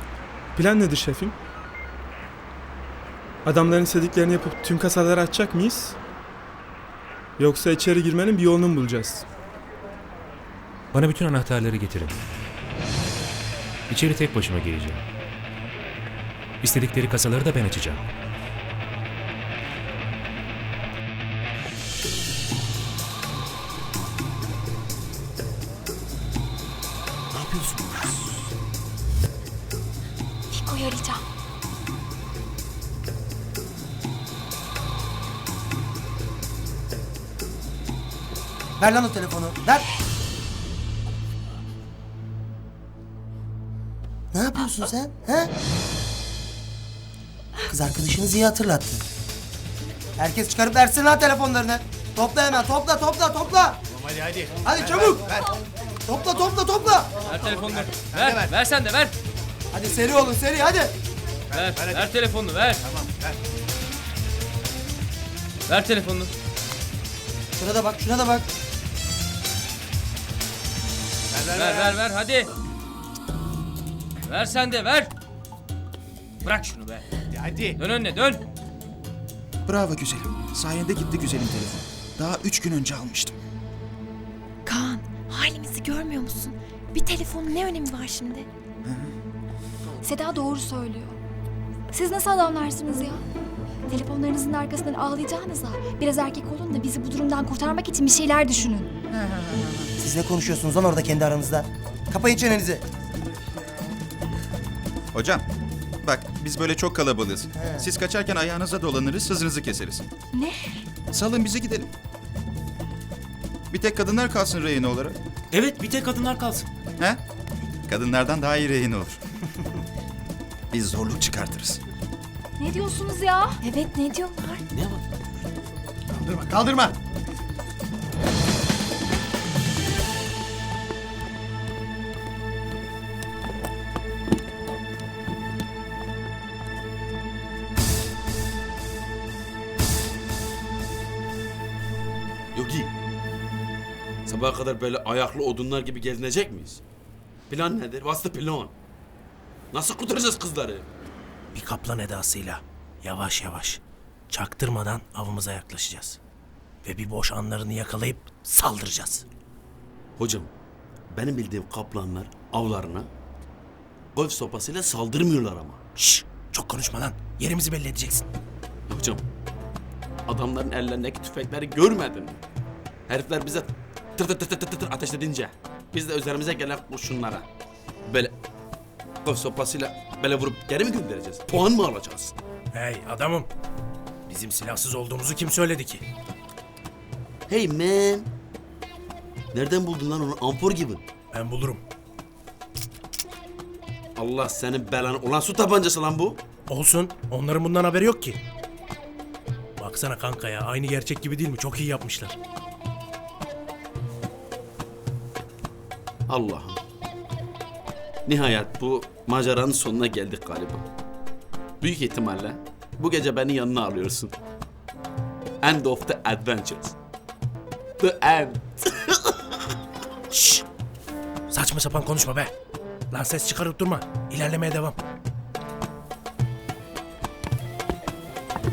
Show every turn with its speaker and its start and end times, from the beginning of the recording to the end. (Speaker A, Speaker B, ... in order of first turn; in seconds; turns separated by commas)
Speaker A: 0.5-1.4, Speaker A: 3.4-6.0, Speaker A: 7.4-9.2, Speaker B: 10.9-12.2, Speaker B: 13.9-15.1, Speaker B: 16.6-18.0, Speaker C: 27.3-28.1, Speaker D: 30.5-31.2, Speaker E: 38.8-39.9, Speaker E: 44.3-45.5, Speaker E: 47.7-49.0, Speaker E: 50.2-53.8, Speaker F: 54.0-55.4, Speaker E: 54.6-55.4, Speaker E: 56.0-57.1, Speaker G: 57.3-59.1, Speaker F: 58.0-58.5, Speaker E: 59.7-60.9, Speaker F: 61.5-61.9, Speaker G: 61.5-62.8, Speaker F: 62.9-63.3, Speaker G: 65.7-66.3, Speaker E: 67.6-68.5, Speaker F: 71.3-71.8, Speaker G: 71.5-72.5, Speaker G: 74.3-75.1, Speaker G: 76.4-77.0, Speaker F: 77.4-77.7, Speaker G: 77.8-78.4, Speaker H: 79.7-83.4, Speaker D: 84.6-88.5, Speaker H: 88.8-89.1, Speaker D: 90.0-91.2, Speaker D: 91.9-93.2, Speaker D: 93.9-98.9, Speaker H: 99.1-99.9, Speaker E: 100.0-102.8, Speaker H: 105.1-105.4, Speaker H: 106.0-110.0, Speaker E: 107.6-107.8, Speaker D: 110.3-110.8, Speaker H: 111.1-111.9, Speaker H: 113.7-115.2, Speaker H: 117.9-119.2, Speaker H: 120.7-121.8, Speaker D: 122.6-124.6, Speaker C: 124.7-125.0, Speaker C: 142.5-142.9, Speaker C: 144.2-146.8, Speaker C: 147.5-148.7, Speaker C: 149.7-150.8, Speaker I: 151.5-153.8, Speaker I: 154.3-156.2, Speaker I: 156.8-159.2, Speaker C: 160.2-160.5, Speaker C: 161.1-163.1, Speaker C: 164.1-165.8, Speaker I: 166.0-168.2, Speaker C: 168.9-169.2, Speaker C: 170.3-172.4, Speaker C: 173.1-177.5, Speaker C: 178.1-178.3, Speaker C: 179.2-182.3, Speaker I: 182.7-183.5, Speaker C: 184.3-184.6, Speaker I: 184.5-186.0, Speaker C: 187.5-188.3, Speaker C: 189.5-191.0, Speaker I: 191.3-191.8, Speaker C: 194.2-196.4, Speaker I: 196.7-198.4, Speaker I: 199.8-202.3, Speaker C: 206.3-206.8, Speaker C: 208.2-210.9, Speaker C: 211.8-214.3, Speaker C: 215.6-216.9, Speaker C: 218.0-219.5, Speaker I: 220.3-220.6, Speaker I: 221.5-222.5, Speaker I: 223.1-224.9